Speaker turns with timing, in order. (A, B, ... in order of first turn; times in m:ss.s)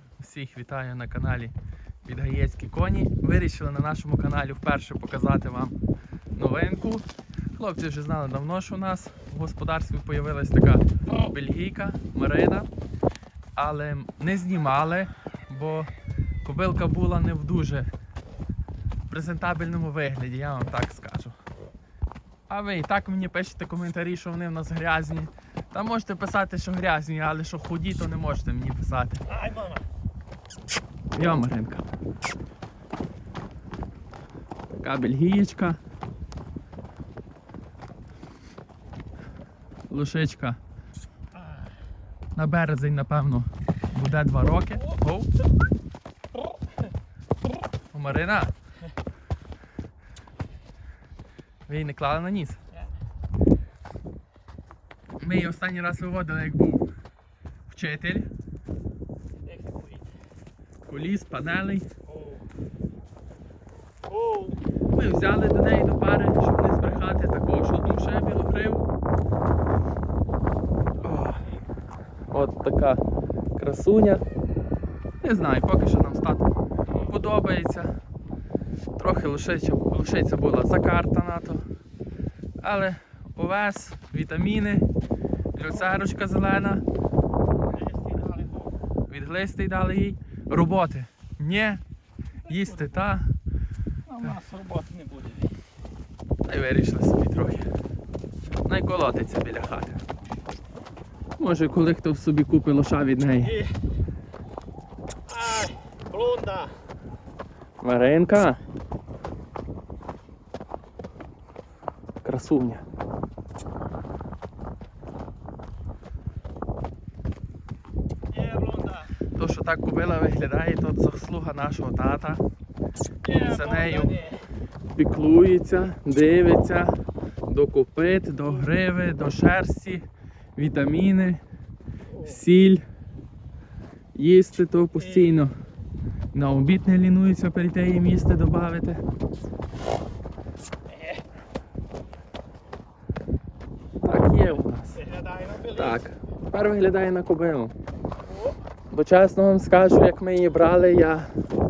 0:00.2-0:05.8 A
0:06.4-0:12.7 A
0:13.6-0:15.9 A
0:16.4-0:17.9 A
0:19.1-0:21.4 A
0:22.5-0:29.2 A
0:29.3-0:29.8 B
0:31.2-0:31.9 A
0:34.7-0:35.8 A
0:39.9-0:40.6 A
0:41.3-0:41.7 B
0:42.4-0:45.3 A
0:47.9-0:48.5 A
0:51.7-0:52.6 A
0:55.2-0:56.9 A
0:57.7-0:58.3 A
0:59.4-1:00.1 B
1:00.8-1:01.9 A
1:02.1-1:02.4 B
1:04.1-1:04.6 B
1:04.9-1:08.9 A
1:11.0-1:11.4 A
1:11.1-1:11.6 B
1:12.3-1:13.0 A
1:13.6-1:14.2 A
1:15.2-1:17.9 A
1:19.0-1:21.6 A
1:22.6-1:24.9 A
1:25.6-1:26.8 A
1:25.7-1:25.9 B
1:27.7-1:28.8 B
1:29.1-1:31.8 A
1:32.4-1:33.3 A
1:32.5-1:33.1 B
1:34.1-1:35.5 B
1:36.5-1:37.7 A
1:38.6-1:40.0 A
1:41.4-1:43.6 A
1:43.4-1:43.8 B
1:45.3-1:46.7 B
1:47.8-1:48.6 A
1:52.2-1:52.8 A
1:58.3-1:59.2 B
1:59.4-2:02.4 A
2:03.2-2:04.4 B
2:03.3-2:04.2 A
2:04.9-2:06.9 A
2:07.5-2:11.4 A
2:12.1-2:12.4 B
2:12.2-2:12.8 A
2:14.2-2:15.5 A
2:15.0-2:15.3 B
2:16.3-2:19.0 A
2:20.9-2:21.2 B
2:24.0-2:25.0 A
2:24.9-2:26.0 B
2:25.8-2:27.7 A
2:28.2-2:28.6 B
2:28.9-2:31.3 A